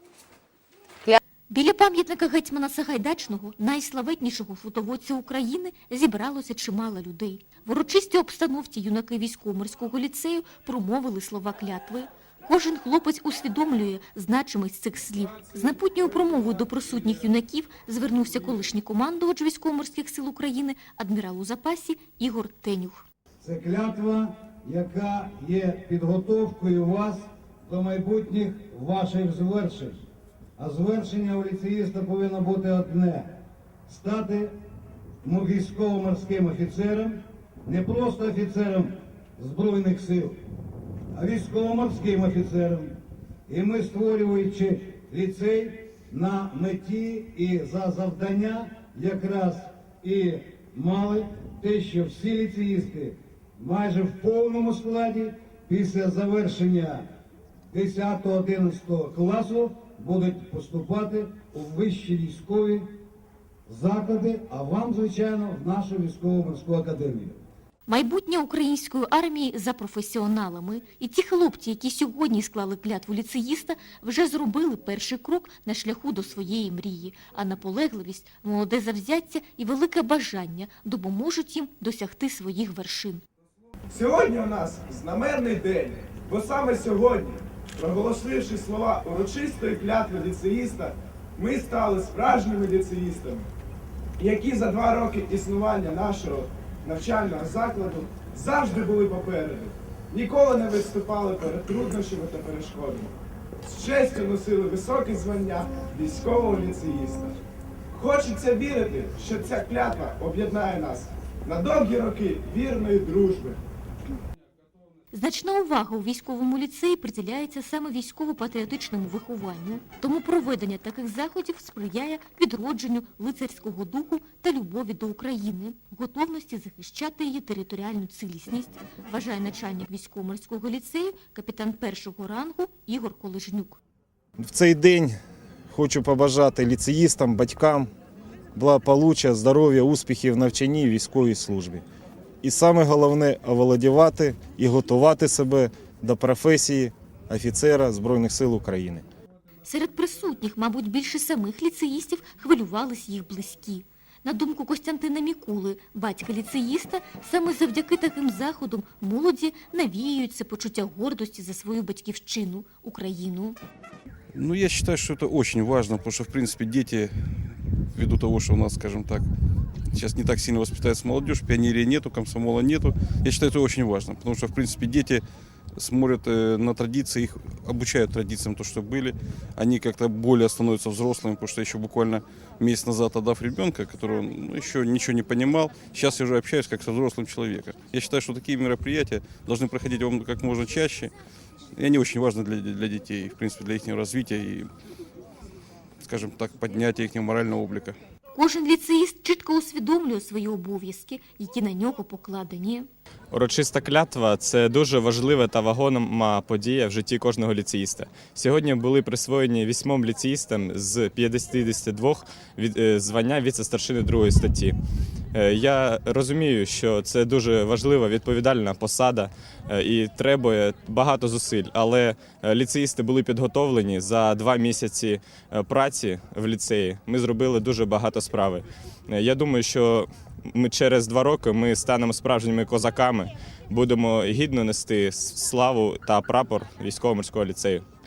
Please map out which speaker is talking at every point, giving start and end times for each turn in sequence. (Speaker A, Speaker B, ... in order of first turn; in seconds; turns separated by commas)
Speaker A: 1.5-23.0, Speaker B: 23.4-30.0, Speaker B: 30.6-33.3, Speaker B: 33.9-34.5, Speaker B: 35.2-40.4, Speaker B: 41.1-43.0, Speaker B: 43.5-57.0, Speaker B: 57.7-62.9, Speaker B: 63.7-67.4, Speaker A: 67.9-83.2, Speaker C: 83.9-93.5, Speaker C: 94.2-103.1, Speaker C: 103.7-107.4, Speaker C: 107.9-113.6, Speaker A: 115.1-133.8, Speaker D: 134.4-135.2, Speaker D: 135.7-137.9, Speaker D: 138.6-141.8, Speaker D: 142.4-149.0, Speaker A: 149.6-163.6, Speaker E: 164.3-167.1, Speaker E: 167.9-169.3, Speaker E: 169.9-175.2, Speaker E: 175.8-191.1, Speaker E: 191.8-194.7, Speaker E: 196.0-198.0, Speaker A: 198.3-202.9, Speaker F: 203.3-214.8, Speaker F: 215.3-237.8